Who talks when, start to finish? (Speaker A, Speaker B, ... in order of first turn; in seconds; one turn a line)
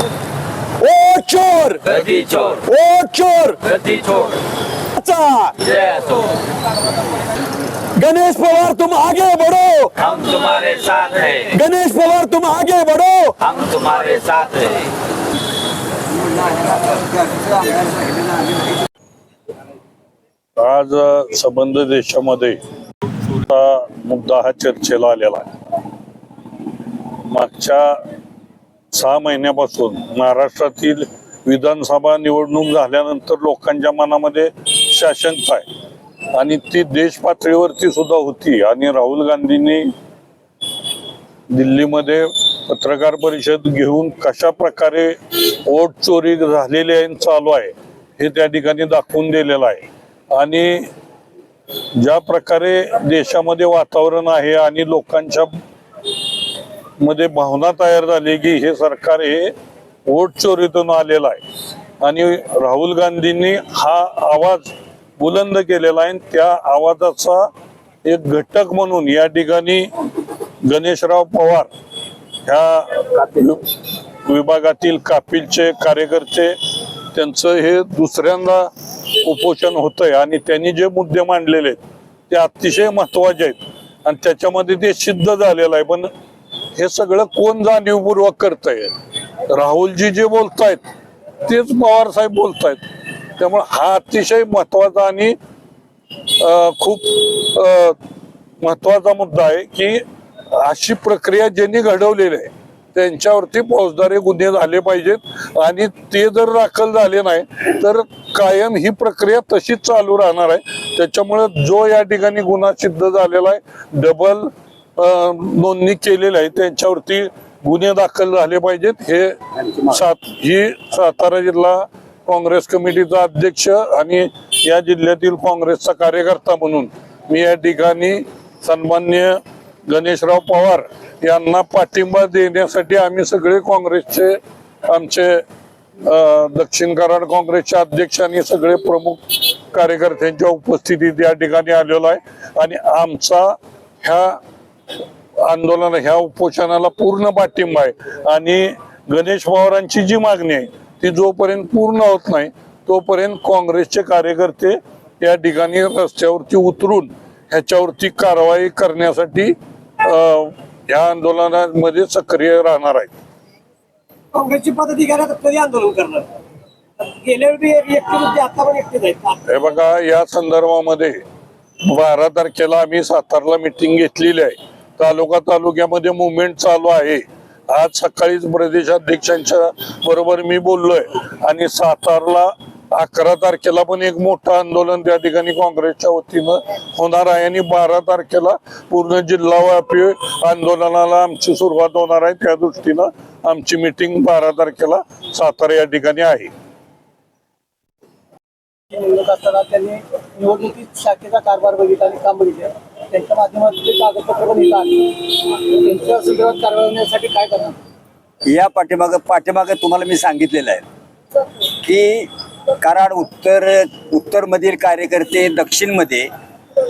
Speaker A: 0.8-1.9
Speaker B: 1.9-2.6
Speaker A: 2.6-3.6
Speaker B: 3.6-4.3
Speaker A: 5.0-5.6
Speaker B: 5.7-6.2
Speaker A: 7.9-9.9
Speaker B: 10.0-11.6
Speaker A: 11.5-13.3
Speaker B: 13.4-14.8
Speaker C: 20.6-22.6
Speaker C: 23.3-25.5
Speaker C: 27.2-28.0
Speaker C: 28.9-35.6
Speaker C: 36.3-39.9
Speaker C: 41.5-50.8
Speaker C: 52.0-55.5
Speaker C: 57.0-59.5
Speaker C: 60.1-61.4
Speaker C: 62.0-67.5
Speaker C: 68.0-69.9
Speaker C: 70.7-71.7
Speaker C: 72.5-73.6
Speaker C: 74.2-76.5
Speaker C: 77.1-78.7
Speaker C: 79.2-81.8
Speaker C: 82.3-86.1
Speaker C: 86.8-88.9
Speaker C: 89.5-90.8
Speaker C: 91.4-92.8
Speaker C: 93.4-95.3
Speaker C: 96.4-98.0
Speaker C: 98.6-100.0
Speaker C: 100.5-135.4
Speaker C: 136.0-144.4
Speaker C: 145.4-163.1
Speaker D: 164.3-166.3
Speaker D: 167.1-169.4
Speaker C: 169.5-171.2
Speaker C: 171.9-196.5
Speaker D: 198.9-207.8
Speaker E: 208.4-210.8
Speaker E: 211.8-212.3
Speaker E: 212.8-216.3